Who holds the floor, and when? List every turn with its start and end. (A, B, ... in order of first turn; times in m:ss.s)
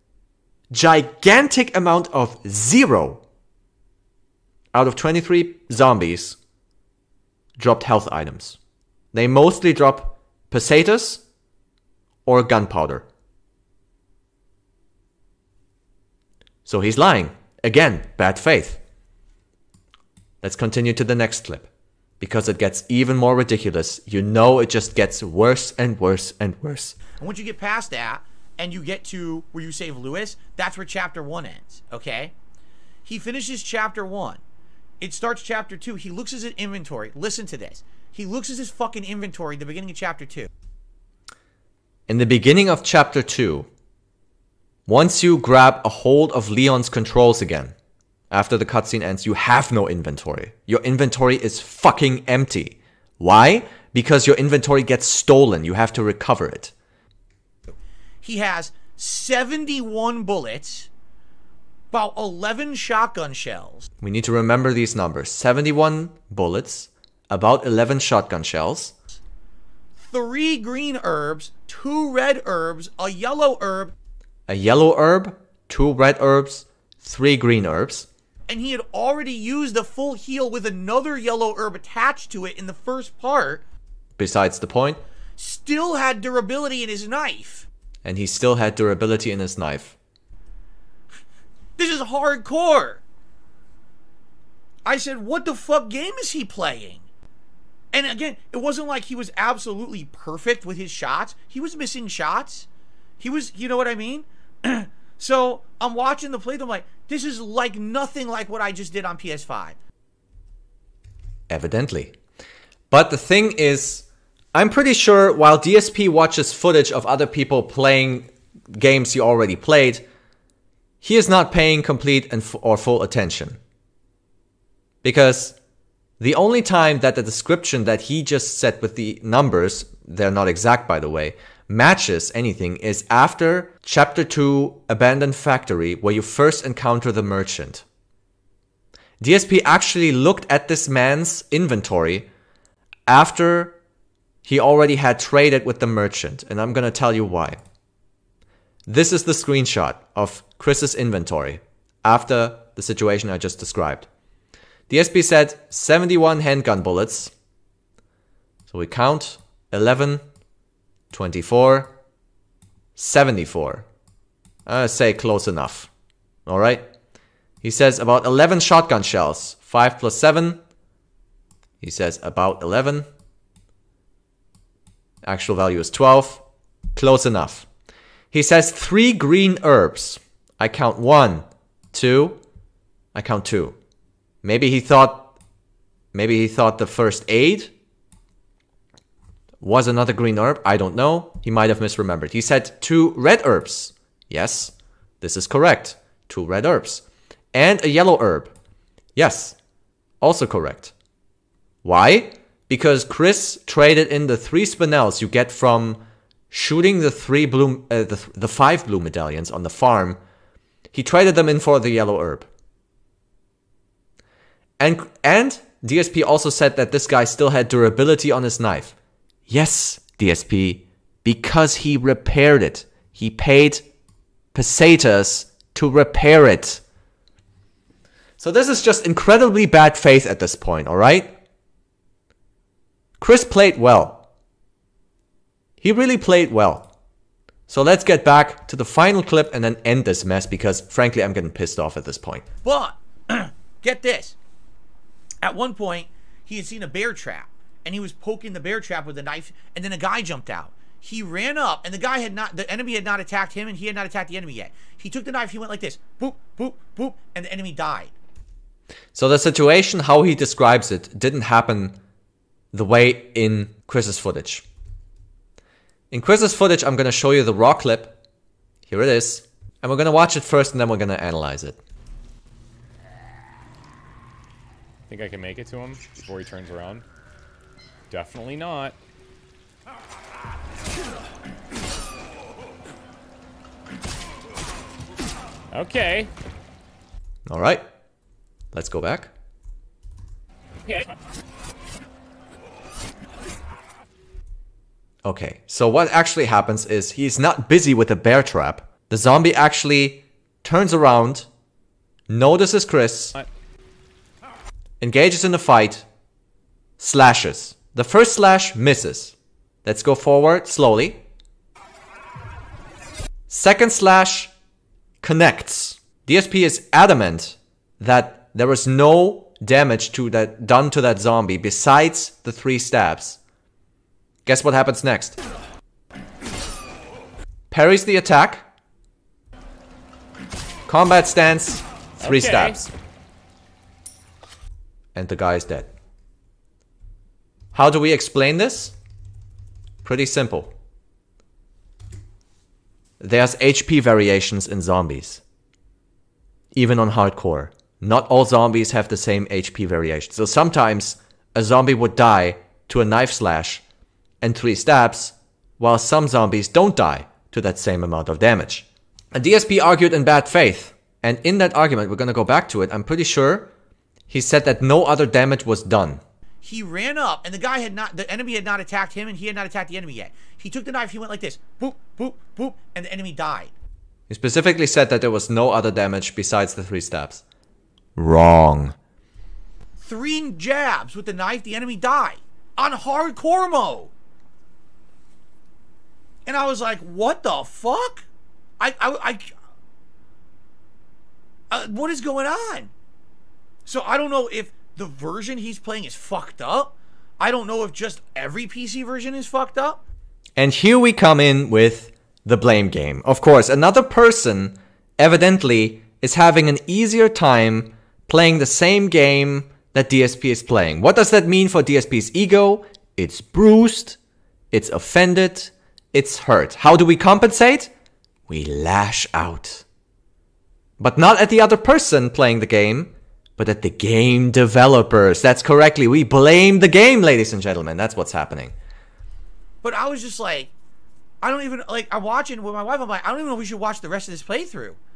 0:00.7-0:03.2 A
0:04.7-0:06.4 A
0:07.6-0:08.6 A
0:09.1-0:11.2 A
0:12.2-0:13.0 A
0:16.6-0:18.8 A
0:20.4-0:21.7 A
0:22.2-0:27.0 A
0:27.2-0:32.3 B
0:33.0-0:34.4 B
0:35.0-0:40.5 B
0:42.1-0:43.7 A
0:44.9-0:47.7 A
0:48.3-0:56.7 A
0:58.2-1:00.9 B
1:01.9-1:03.9 B
1:04.0-1:08.9 A
1:10.0-1:13.9 B
1:14.5-1:18.1 A
1:18.5-1:23.6 B
1:24.2-1:25.0 A
1:25.4-1:27.7 B
1:28.0-1:30.0 A
1:31.8-1:33.0 B
1:34.8-1:37.0 B
1:37.9-1:42.7 B
1:43.2-1:49.8 B
1:51.5-1:52.2 A
1:52.9-2:00.0 A
2:01.0-2:03.6 A
2:05.0-2:05.5 A
2:06.2-2:17.8 A
2:19.2-2:22.3 A
2:23.1-2:23.8 A
2:24.4-2:27.6 A
2:28.9-2:34.1 A
2:34.9-2:37.3 A
2:38.7-2:40.2 A
2:41.1-2:41.9 A
2:43.0-2:43.8 A
2:44.6-2:45.9 A
2:46.4-2:46.9 A
2:47.6-2:50.6 A
2:51.8-2:53.1 A
2:55.2-2:56.4 A
2:56.9-2:57.7 A
2:58.3-3:02.4 A
3:03.1-3:03.8 A
3:04.4-3:05.3 A
3:06.1-3:07.7 A
3:09.6-3:18.5 A
3:19.2-3:19.6 A
3:20.2-3:20.9 A
3:21.8-3:30.2 A
3:30.9-3:32.5 A
3:34.8-3:38.9 A
3:39.5-3:43.8 A
3:44.5-3:46.8 A
3:48.4-3:51.3 A
3:53.2-3:54.2 A
3:55.8-3:56.9 A
3:57.7-4:02.4 A
4:02.6-4:04.4 B
4:05.4-4:18.1 B
4:19.1-4:22.0 A
4:22.7-4:24.6 A
4:26.1-4:28.2 A
4:28.9-4:31.8 A
4:35.1-4:37.0 C
4:38.1-4:39.0 C
4:45.7-4:46.3 C
4:47.5-4:47.8 A
4:48.7-4:49.3 A
4:55.2-5:01.5 A
5:02.3-5:03.4 A
5:05.0-5:06.0 A
5:07.0-5:11.2 A
5:13.5-5:14.5 A
5:15.2-5:23.4 A
5:24.4-5:25.4 A
5:27.7-5:28.7 A
5:30.9-5:32.9 A
5:32.2-5:32.8 C
5:35.1-5:35.9 A
5:37.7-5:38.9 A
5:40.0-5:40.7 A
5:43.2-5:45.4 A
5:46.7-5:53.8 A
5:54.4-6:03.7 A
6:04.3-6:06.2 A
6:06.6-6:13.7 B
6:14.3-6:17.4 A
6:18.2-6:19.0 A
6:20.0-6:24.1 B
6:26.4-6:28.3 B
6:28.8-6:29.5 B
6:31.7-6:32.9 B
6:33.8-6:40.0 B
6:40.6-6:54.2 A
6:54.7-6:57.9 A
6:58.5-6:59.8 A
7:01.0-7:08.7 A
7:09.8-7:10.7 B
7:11.4-7:15.0 B